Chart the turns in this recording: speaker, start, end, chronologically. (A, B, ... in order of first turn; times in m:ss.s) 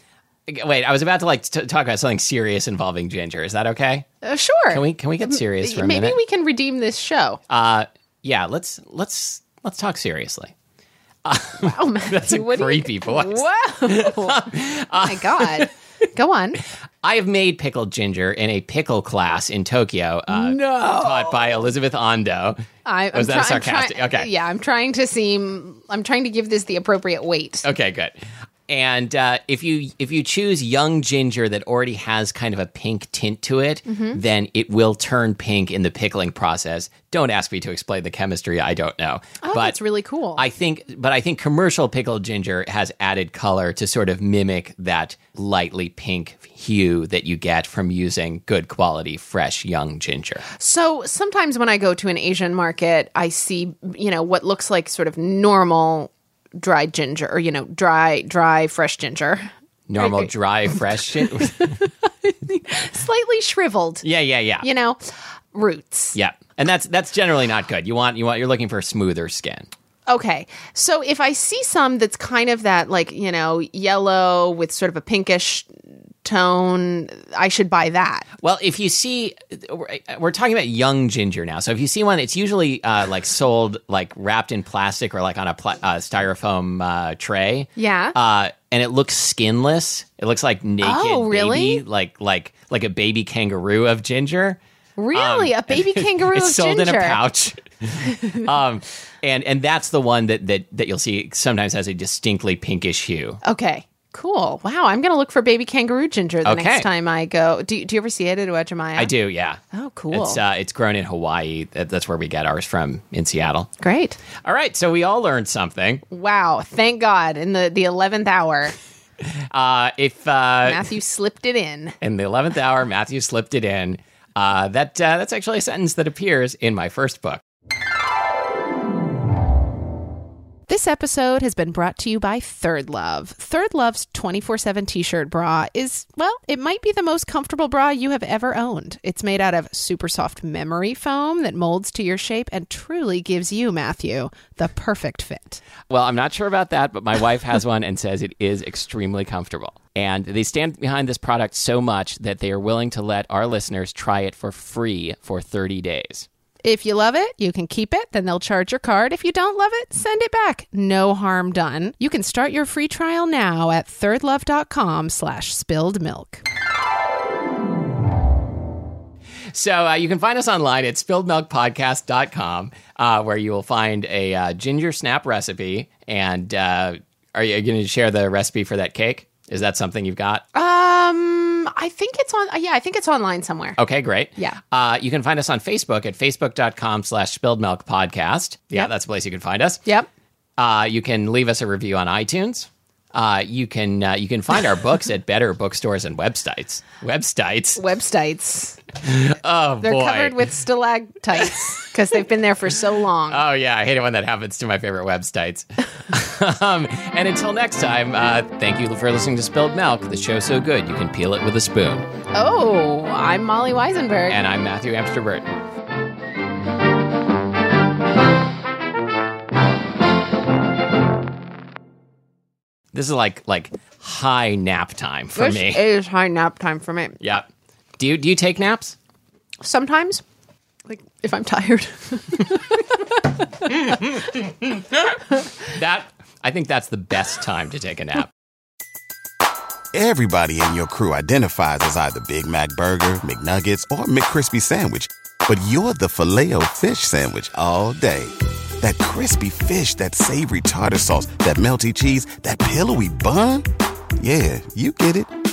0:00.5-0:04.1 A
0:04.2-0:07.4 B
0:04.7-0:06.2 A
0:07.5-0:10.5 A
0:11.2-0:15.7 A
0:11.6-0:16.6 B
0:17.0-0:22.6 A
0:20.3-0:21.6 B
0:22.8-0:27.6 B
0:23.1-0:24.3 A
0:27.6-0:28.2 A
0:28.7-0:39.8 A
0:33.9-0:34.2 B
0:39.4-0:40.4 B
0:40.4-0:50.4 A
0:50.6-1:00.3 B
0:59.9-1:01.8 A
1:01.2-1:04.0 B
1:04.0-1:04.6 A
1:04.6-1:05.0 B
1:05.5-1:06.2 B
1:06.1-1:09.7 A
1:10.1-1:15.7 B
1:16.2-1:18.3 B
1:18.4-1:34.6 A
1:27.8-1:28.2 B
1:30.8-1:31.8 B
1:35.0-1:37.2 B
1:35.1-1:43.4 A
1:43.4-1:49.1 B
1:46.4-1:46.9 A
1:49.0-1:53.7 A
1:49.7-1:50.4 B
1:53.8-1:54.2 B
1:54.4-1:56.0 A
1:56.1-1:58.7 B
1:59.5-2:00.8 A
2:00.6-2:02.0 B
2:02.0-2:07.4 A
2:10.7-2:25.6 B
2:25.9-2:36.3 A
2:36.6-2:46.4 B
2:49.5-3:00.4 A
3:00.5-3:03.8 B
3:03.8-3:09.8 A
3:10.6-3:17.8 A
3:17.8-3:18.8 B
3:19.0-3:20.4 A
3:19.8-3:23.4 B
3:23.3-3:32.1 A
3:32.3-3:34.4 B
3:34.3-3:35.5 A
3:42.9-3:45.8 A
3:45.4-3:47.2 B
3:47.2-3:47.5 A
3:48.0-3:49.0 A
3:49.6-3:50.2 B
3:50.9-3:53.2 B
3:53.6-3:58.3 A
3:59.9-4:13.7 C
4:14.2-4:15.3 C